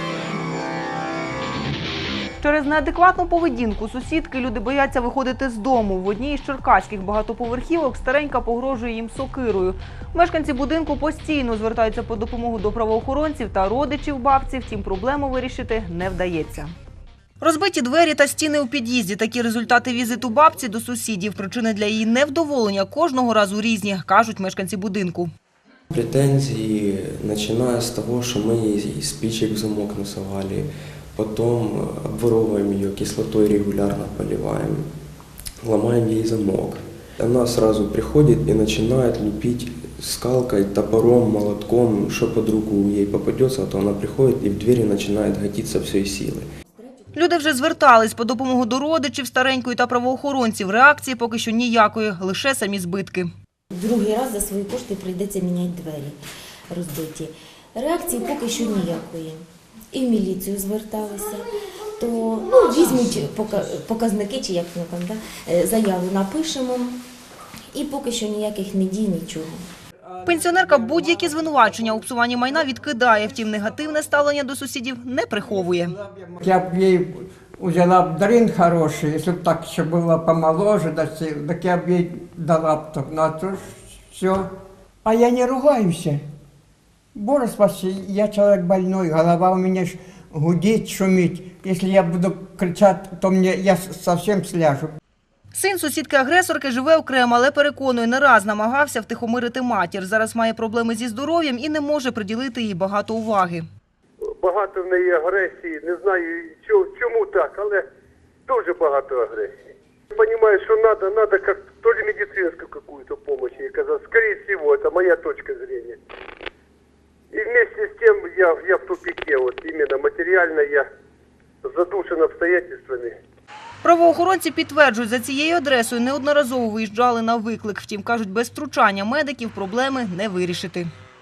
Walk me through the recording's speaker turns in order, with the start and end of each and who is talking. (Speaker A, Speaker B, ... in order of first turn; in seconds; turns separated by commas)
Speaker A: 2.4-16.7, Speaker A: 17.4-25.3, Speaker B: 25.9-34.9, Speaker B: 35.6-46.5, Speaker A: 47.1-53.3, Speaker C: 53.7-56.2, Speaker C: 56.7-67.0, Speaker C: 67.7-69.6, Speaker A: 70.2-75.9, Speaker D: 76.0-84.5, Speaker D: 85.0-86.2, Speaker D: 87.2-94.9, Speaker A: 95.5-103.7, Speaker E: 104.4-107.8, Speaker E: 108.5-109.5, Speaker E: 110.2-116.0, Speaker E: 117.3-120.8, Speaker E: 121.7-123.1, Speaker A: 123.8-130.9